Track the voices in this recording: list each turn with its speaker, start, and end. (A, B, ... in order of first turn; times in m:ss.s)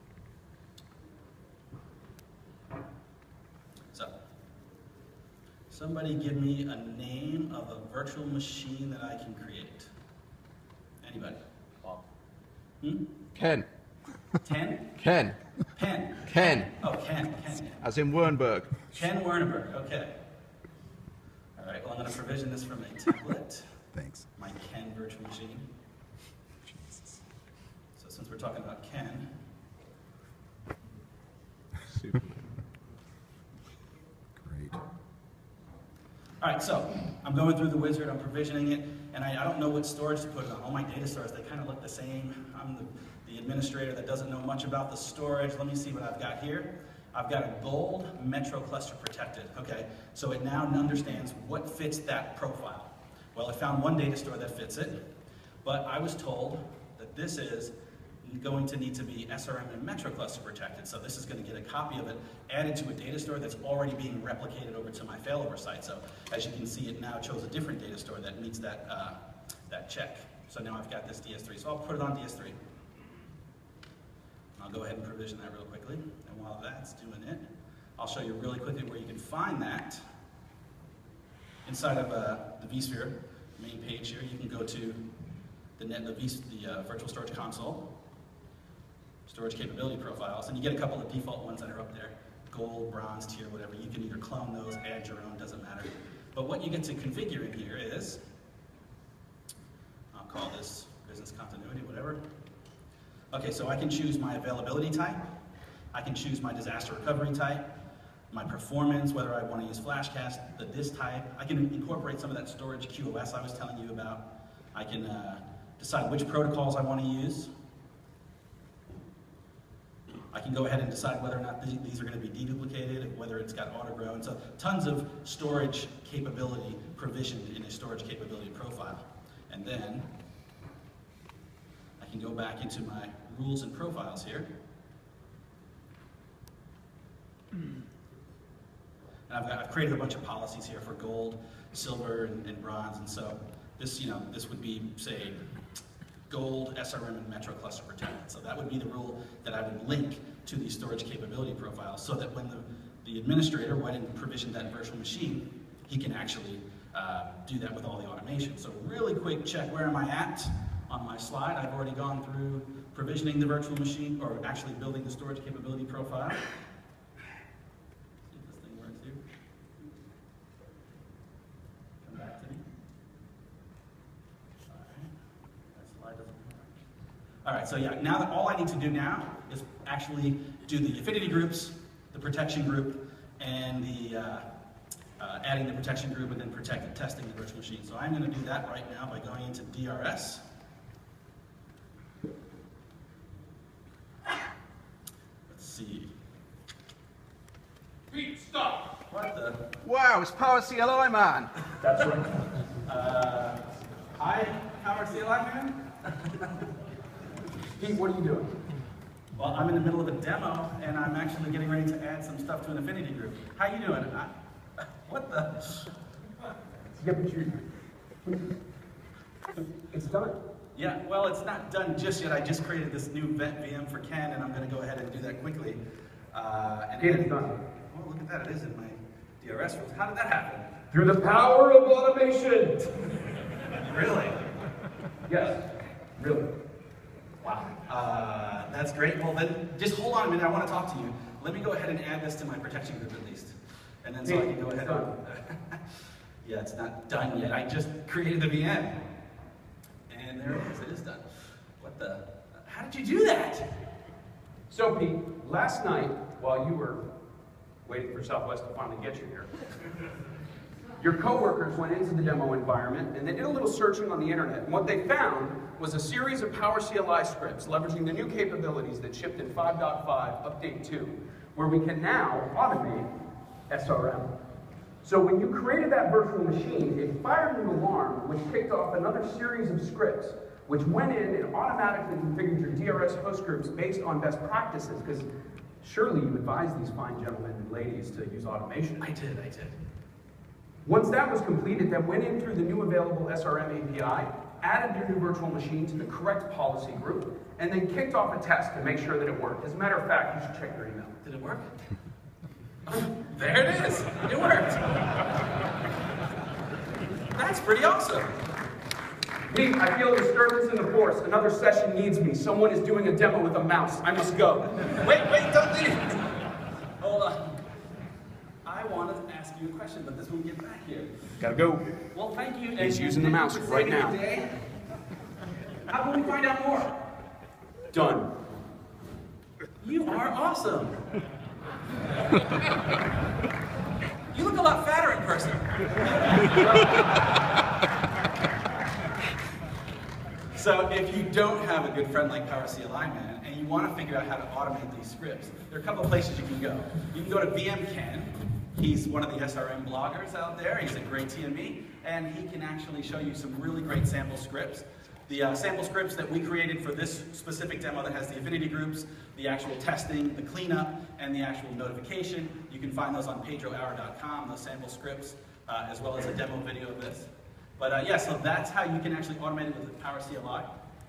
0:05.7-0:09.9 A
0:11.0-0:11.4 A
0:12.8-0:13.1 A
0:13.3-0:13.7 B
0:14.4-0:15.1 A
0:15.0-0:15.4 B
0:15.7-0:17.8 A
0:16.2-0:16.7 B
0:17.8-0:18.9 B
0:18.9-0:20.1 A
0:21.6-0:25.6 A
0:23.9-0:24.2 B
0:26.7-0:27.2 B
0:28.0-0:29.3 A
0:34.4-0:34.8 B
0:36.4-0:55.0 A
0:55.6-1:09.2 A
1:09.7-1:12.6 A
1:14.6-1:17.5 A
1:18.0-1:20.0 A
1:21.6-1:25.0 A
1:25.8-1:27.9 A
1:29.3-1:38.2 A
1:40.1-1:42.2 A
1:43.3-1:45.2 A
1:45.9-1:47.7 A
1:48.3-1:57.5 A
2:00.3-2:10.1 A
2:12.0-2:14.5 A
2:19.3-2:25.4 A
2:26.3-2:46.4 A
2:48.3-2:49.2 A
2:52.0-2:52.6 A
2:54.7-2:55.1 A
2:55.7-2:56.7 A
2:57.4-3:04.4 A
3:05.2-3:10.4 A
3:15.5-3:16.1 A
3:18.1-3:18.8 C
3:19.1-3:19.7 A
3:19.8-3:21.6 B
3:21.8-3:22.5 C
3:22.8-3:23.6 A
3:24.2-3:26.6 A
3:27.8-3:28.5 C
3:29.4-3:35.9 A
3:37.0-3:37.6 C
3:39.9-3:40.4 C
3:40.8-3:45.8 A
3:46.3-3:50.7 A
3:47.0-3:47.6 C
3:50.9-3:53.0 C
3:53.8-3:54.4 A
3:55.3-3:55.6 C
3:56.2-3:56.5 C
3:57.4-4:09.0 A
4:04.2-4:05.1 C
4:10.1-4:11.3 A
4:11.8-4:13.7 A
4:14.7-4:17.0 C
4:17.8-4:19.5 C
4:21.0-4:33.1 C
4:33.7-4:34.3 C
4:35.0-4:45.3 C
4:45.8-4:49.0 C
4:49.0-4:49.8 A
4:50.8-5:01.2 C
5:01.2-5:01.7 A
5:02.9-5:05.0 A
5:07.3-5:08.4 A
5:09.5-5:14.7 C
5:14.8-5:16.3 A
5:17.0-5:17.6 A
5:18.6-5:21.2 A
5:21.4-5:21.9 C
5:22.1-5:24.5 A
5:22.8-5:24.2 C
5:25.9-5:27.0 A
5:27.9-5:28.3 C
5:29.8-5:31.0 A
5:34.3-5:37.2 A
5:40.5-6:10.7 A